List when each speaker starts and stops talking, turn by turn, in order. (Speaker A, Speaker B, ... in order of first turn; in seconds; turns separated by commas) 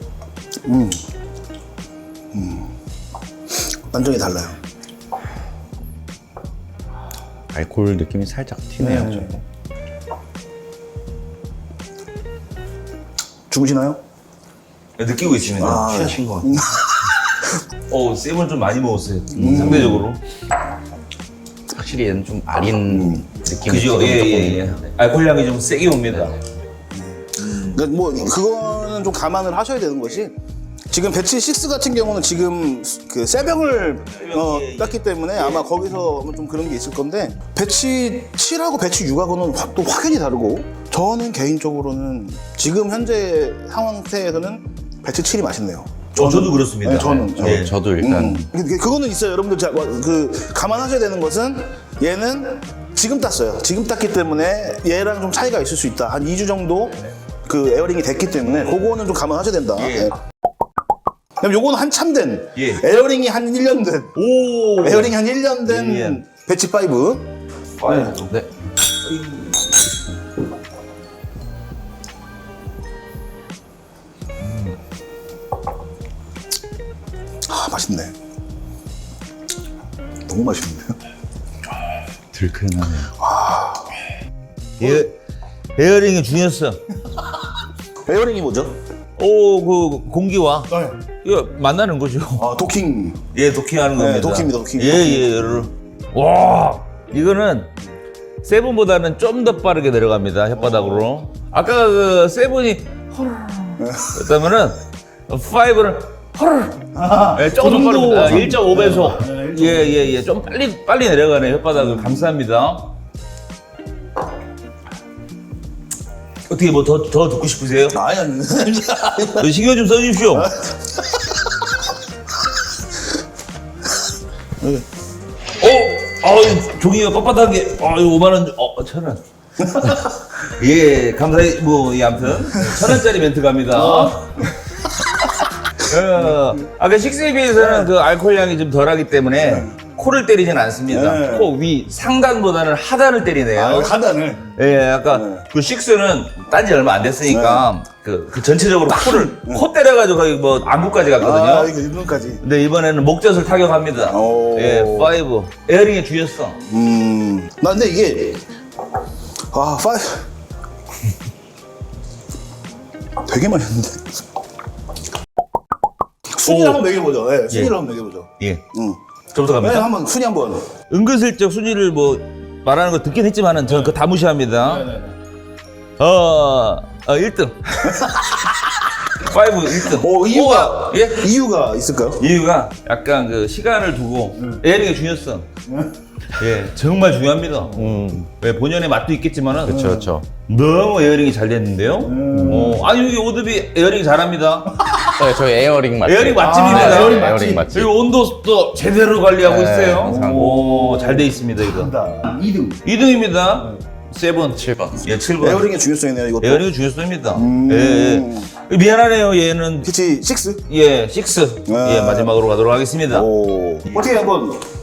Speaker A: 0.7-1.0, Speaker A: 2.3-2.7, Speaker A: 3.8-4.6, Speaker B: 7.5-9.4, Speaker A: 8.8-9.4, Speaker A: 13.5-14.0, Speaker C: 15.0-16.6, Speaker A: 15.6-17.4, Speaker C: 17.9-20.2, Speaker A: 19.3-20.1, Speaker B: 19.6-19.9, Speaker B: 21.7-24.8, Speaker A: 22.9-23.3, Speaker C: 23.6-26.4, Speaker A: 27.0-30.4, Speaker C: 27.4-27.8, Speaker A: 30.9-60.2, Speaker C: 34.0-35.7, Speaker C: 46.2-47.8, Speaker B: 47.4-48.4, Speaker C: 59.8-60.1, Speaker A: 61.4-64.2, Speaker C: 62.6-62.8, Speaker C: 64.2-65.1, Speaker A: 64.8-67.3, Speaker C: 65.7-66.2, Speaker C: 67.8-68.4, Speaker A: 67.8-68.1, Speaker C: 69.1-69.5, Speaker C: 74.4-74.8, Speaker A: 77.5-78.1, Speaker A: 80.3-81.0, Speaker C: 82.3-83.1, Speaker A: 83.1-83.9, Speaker C: 84.8-85.1, Speaker A: 84.8-85.0, Speaker C: 85.8-86.8, Speaker A: 88.0-88.7, Speaker C: 89.2-90.7, Speaker A: 90.7-91.0, Speaker C: 91.2-92.5, Speaker A: 92.4-93.2, Speaker C: 93.3-97.7, Speaker A: 94.0-95.7, Speaker C: 98.4-106.8, Speaker A: 100.6-101.1, Speaker A: 103.8-104.3, Speaker A: 106.9-110.1, Speaker C: 107.3-112.9, Speaker A: 111.7-112.3, Speaker C: 116.5-118.0, Speaker A: 117.9-119.5, Speaker C: 119.2-120.5, Speaker A: 120.3-121.3, Speaker C: 125.6-129.2, Speaker A: 129.6-130.1, Speaker C: 129.8-134.2, Speaker A: 133.7-135.1, Speaker C: 135.8-143.9, Speaker A: 137.6-137.9, Speaker A: 139.4-139.8, Speaker A: 140.9-141.5, Speaker A: 143.5-144.6, Speaker C: 144.6-151.7, Speaker A: 145.1-145.5, Speaker A: 147.3-147.7, Speaker A: 148.9-149.7, Speaker A: 151.2-152.4, Speaker C: 152.4-156.6, Speaker A: 154.1-155.2, Speaker A: 156.7-158.4, Speaker A: 159.5-160.3, Speaker A: 163.2-164.1, Speaker A: 166.3-169.0, Speaker C: 166.5-166.8, Speaker C: 169.3-169.9, Speaker A: 169.5-170.7, Speaker C: 170.9-174.8, Speaker A: 173.7-174.0, Speaker A: 174.6-175.2, Speaker C: 176.0-178.0, Speaker A: 177.8-178.5, Speaker C: 179.2-181.3, Speaker A: 179.8-182.3, Speaker C: 182.2-185.5, Speaker A: 184.4-184.6, Speaker A: 185.7-186.0, Speaker C: 186.4-187.8, Speaker B: 187.8-188.3, Speaker C: 188.4-189.8, Speaker B: 189.7-190.3, Speaker A: 189.7-190.1, Speaker C: 190.5-194.7, Speaker A: 192.0-192.8, Speaker B: 192.3-192.8, Speaker B: 195.1-197.9, Speaker C: 196.0-201.9, Speaker A: 196.4-197.7, Speaker B: 199.4-200.5, Speaker A: 200.1-202.8, Speaker C: 202.8-205.7, Speaker B: 204.6-205.1, Speaker A: 205.4-206.7, Speaker C: 206.4-209.9, Speaker A: 207.3-208.5, Speaker A: 209.8-210.6, Speaker C: 210.7-213.3, Speaker A: 211.7-212.3, Speaker A: 213.1-214.6